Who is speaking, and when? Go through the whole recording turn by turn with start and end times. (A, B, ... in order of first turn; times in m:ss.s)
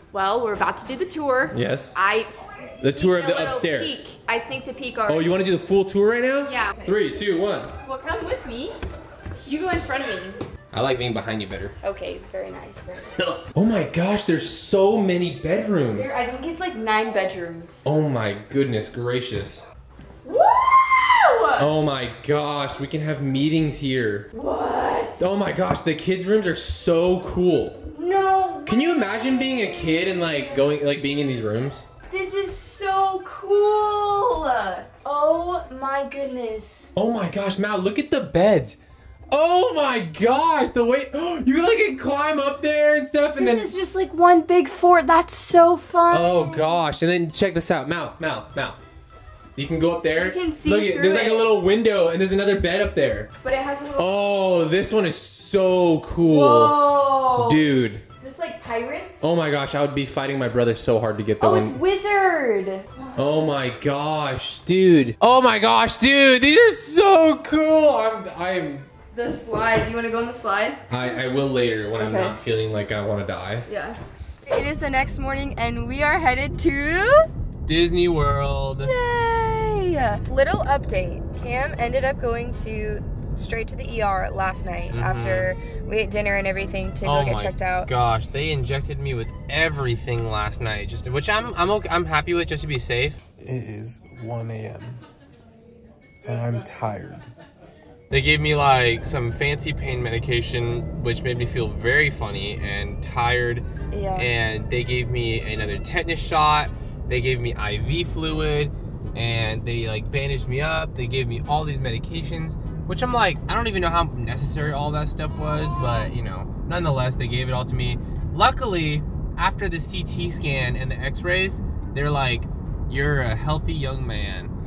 0:00.1-0:05.4 A
0:01.5-0:02.0 B
0:02.8-0:04.1 B
0:05.1-0:07.7 B
0:06.4-0:07.0 A
0:07.8-0:08.8 A
0:09.4-0:10.4 A
0:10.7-0:11.7 B
0:11.8-0:13.1 A
0:13.1-0:16.1 B
0:15.9-0:17.8 A
0:17.8-0:19.6 B
0:20.2-0:21.7 A
0:21.6-0:24.3 B
0:24.3-0:25.3 A
0:25.2-0:27.8 B
0:27.9-0:30.7 A
0:28.6-0:31.8 B
0:32.1-0:36.9 A
0:36.9-0:38.8 B
0:39.3-0:43.7 B
0:43.4-0:46.8 A
0:46.1-0:48.8 B
0:49.6-0:53.3 B
0:50.1-0:51.5 A
0:53.4-0:54.2 A
0:54.0-0:56.8 B
0:56.2-0:59.2 A
0:57.3-0:58.0 B
0:59.2-1:01.8 B
1:01.4-1:03.2 A
1:03.2-1:08.9 B
1:09.1-1:11.2 A
1:10.9-1:13.7 B
1:12.0-1:12.4 A
1:13.6-1:17.3 A
1:17.6-1:18.9 B
1:18.8-1:27.9 A
1:24.9-1:25.5 B
1:27.0-1:35.0 B
1:36.2-1:37.3 B
1:38.1-2:04.5 B
1:43.9-1:44.3 A